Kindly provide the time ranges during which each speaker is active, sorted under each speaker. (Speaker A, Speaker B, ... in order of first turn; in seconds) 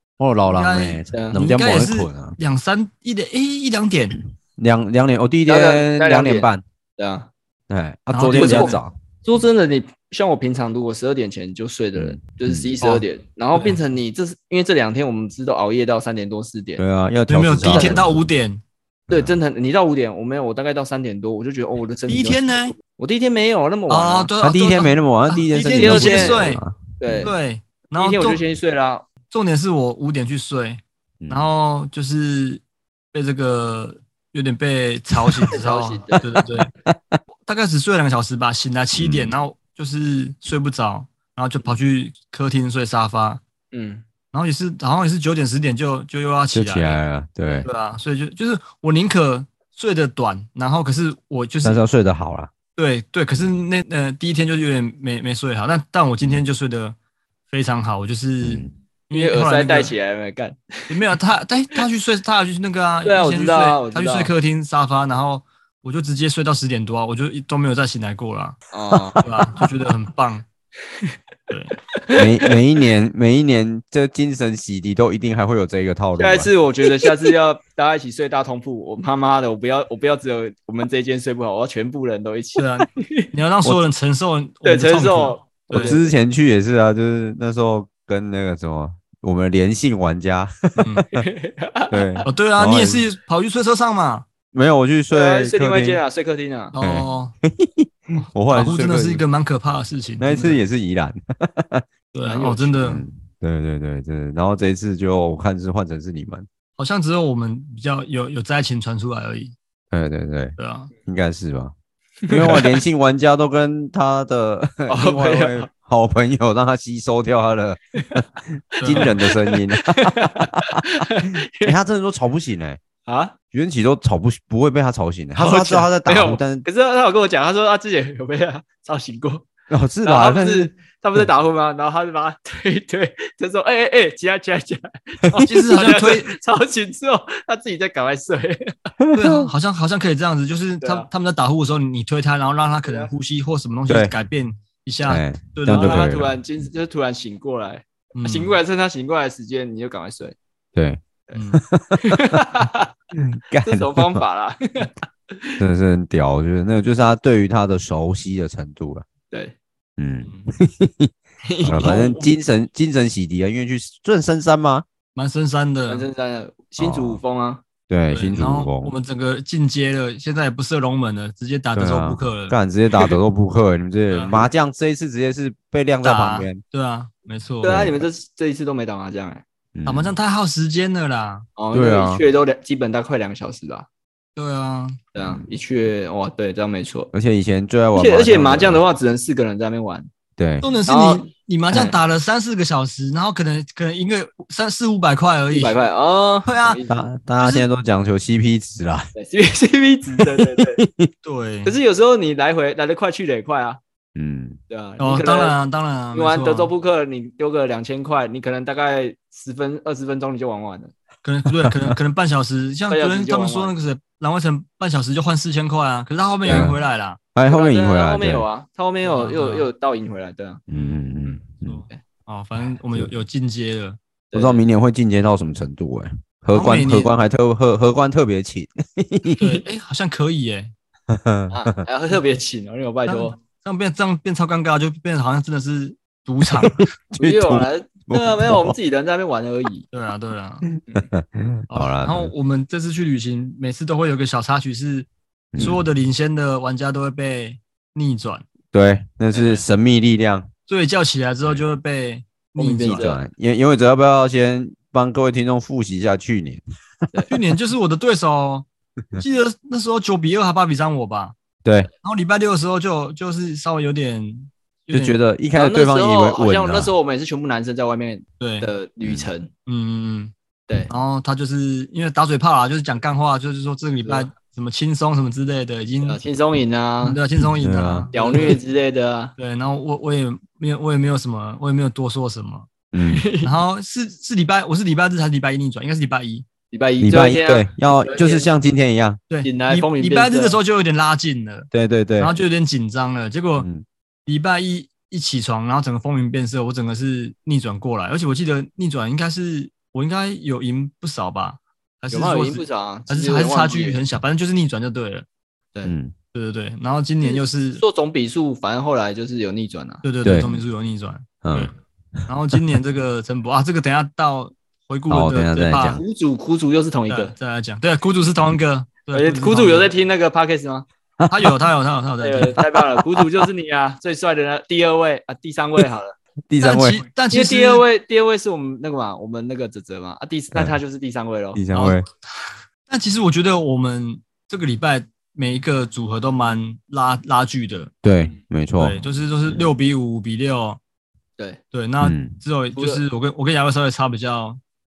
Speaker A: 0.2-2.4, 4.6-6.6, 7.7-8.9, 11.9-12.7, 16.8-18.2, 19.1-19.3, 24.4-27.3, 31.2-31.5, 36.4-37.2, 38.9-39.3, 46.5-47.7, 51.6-52.5, 58.4-58.7, 72.2-76.5, 85.7-91.2, 91.9-93.0, 94.5-96.0, 96.8-99.2, 100.2-101.8, 102.8-106.5, 109.9-111.7, 112.3-120.8, 121.6-122.8, 123.5-126.7, 129.7-130.7, 139.0-139.5, 145.1-146.3, 150.8-151.0, 151.6-152.4, 153.1-154.2, 155.6-159.1, 160.0-164.9, 166.8-167.2, 167.9-168.9, 171.7-176.6, 177.7-178.0, 179.8-180.1, 181.7-182.2, 185.2-185.4, 187.1-188.8, 190.4-190.7, 196.9-199.1, 200.2-201.1, 204.2-204.6, 211.5-211.9, 216.4-216.8, 217.3-218.4, 220.7-221.8, 224.3-229.6, 231.1-231.7, 236.6-238.8, 241.1-242.3, 245.5-245.8, 248.7-250.5, 252.8-256.6, 261.6-261.9, 264.9-266.9, 269.0-269.3, 277.4-278.5, 282.9-283.2, 287.0-289.2, 291.7-292.3, 293.6-293.9, 305.9-306.1, 310.2-310.6, 311.4-311.7, 315.1-316.0, 321.2-321.5, 326.5-327.0, 331.6-332.1, 338.0-339.7, 342.0-342.4
Speaker B: 0.5-4.2, 8.1-8.8, 17.3-18.6, 22.1-22.8, 23.9-26.6, 27.2-28.4, 29.3-36.7, 37.5-43.4, 44.3-47.0, 47.6-51.8, 52.8-57.0, 57.5-59.9, 60.9-68.6, 69.2-70.5, 71.5-71.8, 82.6-86.0, 90.8-91.1, 92.3-94.3, 96.7-97.3, 98.5-100.6, 102.1-103.0, 106.8-109.5, 110.6-110.9, 118.8-119.1, 135.4-136.4, 139.1-146.2, 148.2-148.5, 151.3-151.6, 165.2-166.1, 168.1-172.6, 176.0-177.8, 179.9-181.5, 184.4-185.0, 190.6-195.8, 196.4-196.8, 197.4-197.7, 201.2-201.8, 205.0-206.7, 211.2-217.2, 219.0-219.7, 220.7-224.0, 226.5-227.1, 229.4-230.7, 233.1-236.8, 239.9-240.7, 241.7-248.4, 250.7-253.1, 257.3-261.4, 262.0-265.2, 268.4-268.7, 269.7-270.3, 270.9-276.2, 277.0-278.6, 279.4-282.7, 283.4-286.5, 289.3-293.7, 294.3-305.3, 306.3-307.8, 310.0-311.7, 312.3-316.0, 317.1-319.9, 321.3-322.6, 326.6-327.8, 331.7-332.3, 332.9-337.9, 338.8-340.8, 341.7-344.6
Speaker C: 1.1-1.4, 5.5-7.3, 8.3-16.8, 17.7-18.0, 19.1-24.3, 25.7-26.4, 27.0-27.3, 27.9-29.1, 35.5-36.2, 43.7-44.0, 59.1-60.9, 63.0-64.3, 68.7-69.6, 71.9-72.5, 76.2-83.3, 84.6-86.1, 91.1-92.3, 95.1-96.8, 102.3-102.9, 112.3-112.6, 114.9-115.7, 118.8-121.8, 123.1-123.3, 125.3-129.5, 130.0-138.7, 140.8-141.1, 142.8-143.1, 145.7-150.4, 152.0-152.9, 153.6-155.6, 159.3-159.6, 161.4-162.3, 165.9-167.6, 177.6-179.4, 181.6-183.9, 185.1-187.1, 187.9-190.1, 190.9-191.9, 195.5-197.0, 199.2-200.8, 201.7-203.8, 204.7-205.6, 206.1-210.9, 212.9-213.7, 217.5-220.6, 224.3-224.6, 231.5-233.3, 237.2-239.8, 252.6-253.2, 265.6-269.5, 274.0-274.3, 276.0-277.2, 278.1-279.3, 283.0-283.5, 286.7-288.5, 289.4-290.6, 302.1-304.0, 307.2-310.0, 315.9-317.3, 319.1-320.9, 322.2-326.2, 327.3-331.6, 342.8-343.0